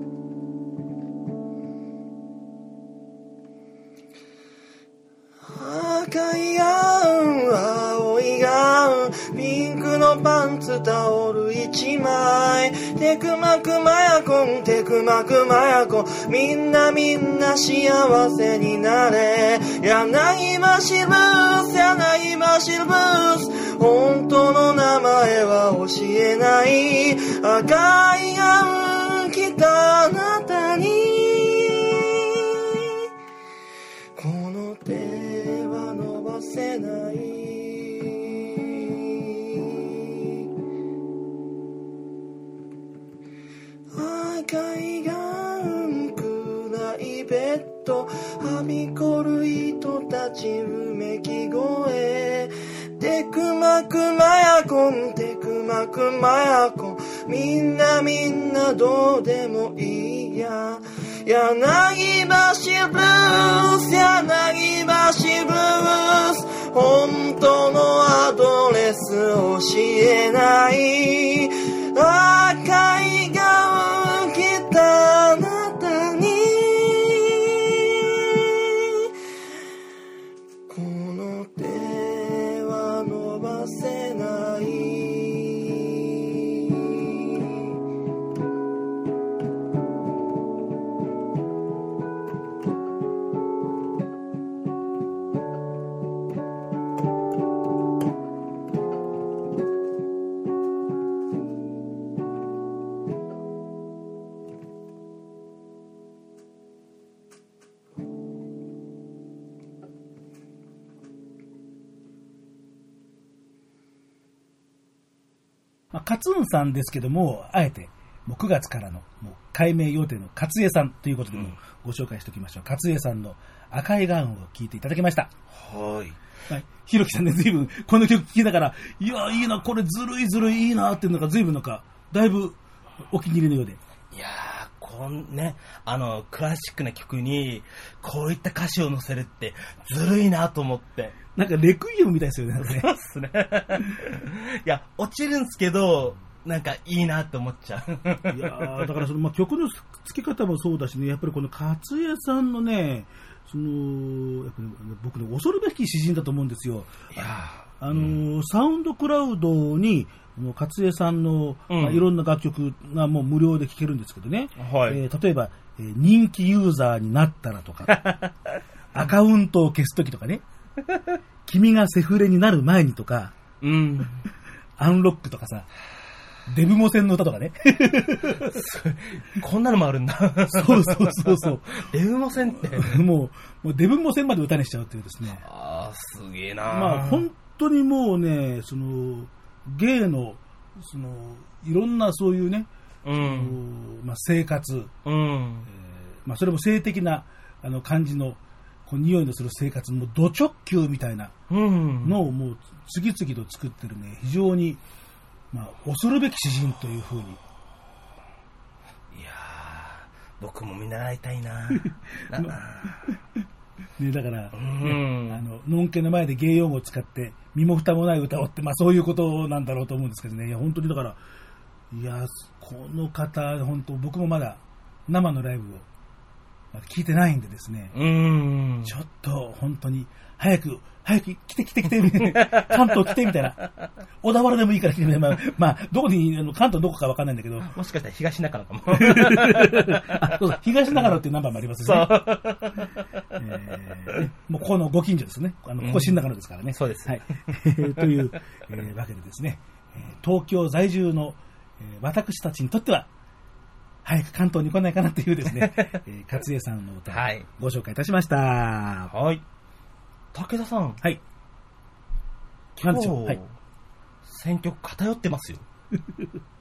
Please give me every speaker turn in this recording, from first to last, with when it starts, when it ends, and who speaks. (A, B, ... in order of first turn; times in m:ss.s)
0:05.4-0:33.0 A
0:34.2-0:40.4 A
0:43.9-1:19.1 A
1:20.7-1:27.6 A
1:55.9-2:05.3 B
2:05.5-2:06.2 C
2:06.5-2:13.8 B
2:14.1-2:21.2 C
2:21.3-2:22.9 B
2:22.6-2:28.9 C
2:28.3-2:36.9 B
2:37.1-2:38.2 C
2:37.8-2:48.1 B
2:41.7-2:42.0 C
2:44.6-2:45.0 C
2:48.0-2:48.3 C
2:48.9-2:50.4 B
2:51.4-2:53.3 B
2:53.6-2:54.2 C
2:54.8-2:55.7 B
2:56.5-2:58.5 B
2:58.3-3:03.0 C
3:00.5-3:01.8 B
3:02.7-3:05.4 B
3:05.4-3:07.2 C
3:06.7-3:14.9 B
3:13.0-3:13.6 C
3:15.0-3:15.7 C
3:15.7-3:21.3 B
3:21.5-3:22.2 C
3:22.0-3:24.8 B
3:25.5-3:27.4 B
3:29.1-3:33.0 C
3:31.7-3:32.6 B
3:34.0-3:41.2 B
3:34.5-3:35.4 C
3:41.9-3:45.8 B
3:46.7-3:47.9 B
3:47.9-3:48.9 C
3:48.8-3:53.6 B
3:52.3-3:52.6 C
3:54.2-3:57.7 B
3:57.6-4:00.2 C
3:58.9-4:02.1 B
4:01.8-4:03.0 C
4:03.4-4:13.1 B
4:05.8-4:06.2 C
4:06.7-4:07.4 C
4:14.0-4:19.1 B
4:15.5-4:16.0 C
4:17.1-4:17.4 C
4:19.1-4:19.4 C
4:20.3-4:21.0 C
4:22.8-4:23.4 B
4:22.8-4:23.5 C
4:24.2-4:25.6 C
4:26.0-4:26.3 B